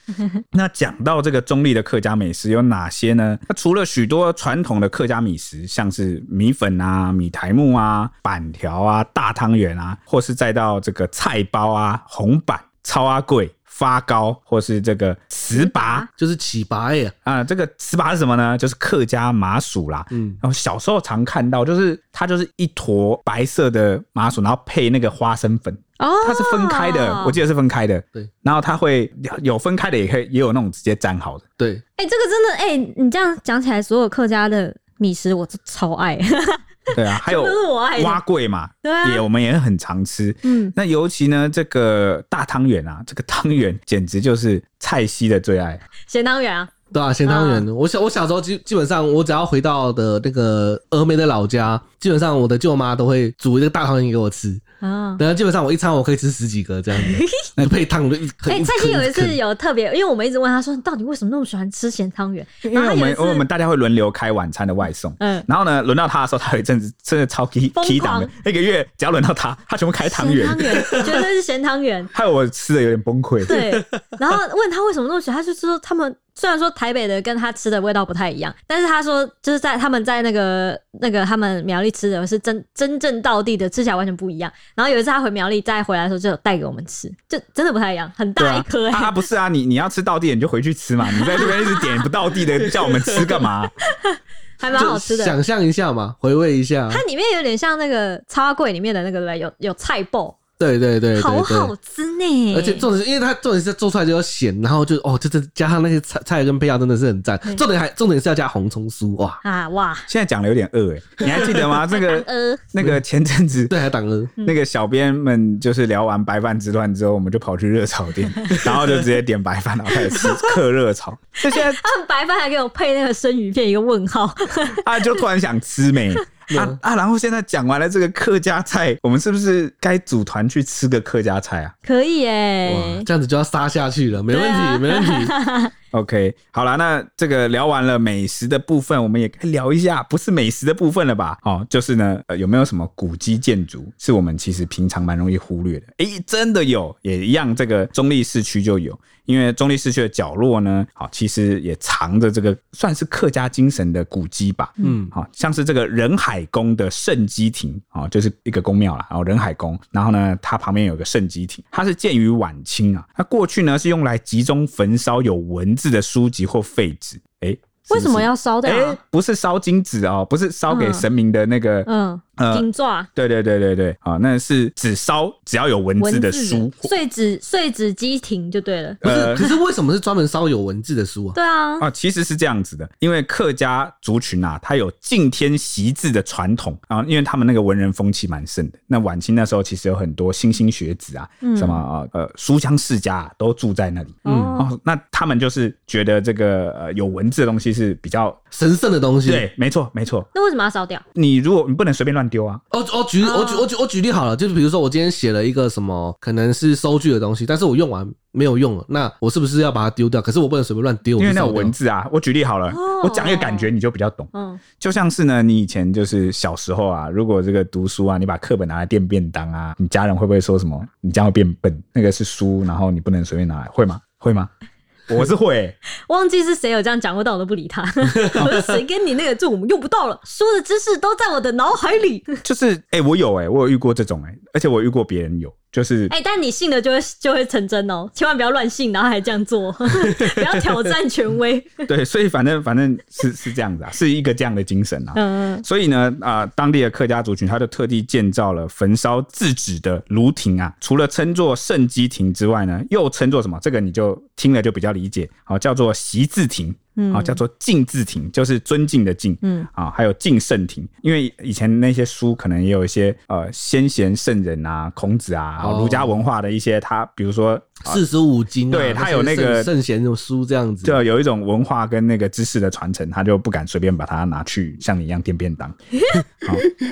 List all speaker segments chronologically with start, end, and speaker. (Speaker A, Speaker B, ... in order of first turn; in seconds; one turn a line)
Speaker A: 0.5-16.1
Speaker B: 15.5-16.1
Speaker C: 16.1-17.1
Speaker A: 17.2-31.4
Speaker C: 20.1-20.4
Speaker B: 26.0-27.4
Speaker B: 32.0-38.2
Speaker A: 36.9-45.8
Speaker B: 38.8-39.2
Speaker B: 40.4-40.7
Speaker B: 46.1-46.7
Speaker C: 46.9-54.6
Speaker B: 47.2-47.7
Speaker B: 54.8-55.2
Speaker C: 55.2-59.4
Speaker B: 56.9-57.5
Speaker B: 58.5-63.5
Speaker A: 62.6-70.9
Speaker B: 65.2-65.5
Speaker B: 67.8-68.3
Speaker B: 70.0-72.1
Speaker A: 72.1-73.6
Speaker B: 73.5-89.3
Speaker C: 73.5-73.8
Speaker A: 88.4-93.7
Speaker B: 91.1-92.1
Speaker B: 93.9-95.4
Speaker C: 94.7-97.0
Speaker B: 96.9-100.4
Speaker C: 100.6-101.7
Speaker B: 101.2-102.9
Speaker C: 102.5-109.4
Speaker B: 109.4-110.1
Speaker A: 110.1-113.7
Speaker B: 111.2-112.7
Speaker C: 113.7-114.3
Speaker A: 114.4-121.8
Speaker B: 120.1-120.5
Speaker B: 121.4-125.2
Speaker A: 124.7-131.8
Speaker C: 126.5-126.8
Speaker B: 131.8-133.1
Speaker C: 132.7-135.3
Speaker B: 134.3-135.7
Speaker A: 135.9-176.9
Speaker C: 154.8-155.1
Speaker B: 167.9-169.0
Speaker B: 170.7-171.1
Speaker B: 171.9-173.1
Speaker B: 176.0-179.6
Speaker A: 179.0-179.4
Speaker C: 179.0-181.4
Speaker B: 181.3-181.9
Speaker A: 181.8-198.4
Speaker B: 191.4-191.8
Speaker C: 194.2-194.6
Speaker B: 194.2-194.7
Speaker C: 198.5-199.5
Speaker A: 199.2-200.3
Speaker B: 200.3-201.0
Speaker A: 201.2-202.6
Speaker C: 202.7-211.8
Speaker B: 203.2-203.7
Speaker A: 211.2-224.5
Speaker B: 212.7-213.7
Speaker B: 214.3-214.6
Speaker A: 225.1-225.8
Speaker B: 226.1-232.4
Speaker A: 232.4-236.1
Speaker B: 236.1-241.9
Speaker A: 241.9-268.0
Speaker B: 245.2-245.6
Speaker B: 257.0-257.4
Speaker B: 259.4-259.7
Speaker C: 265.6-266.1
Speaker C: 267.9-271.0
Speaker A: 268.7-269.7
Speaker A: 270.8-275.8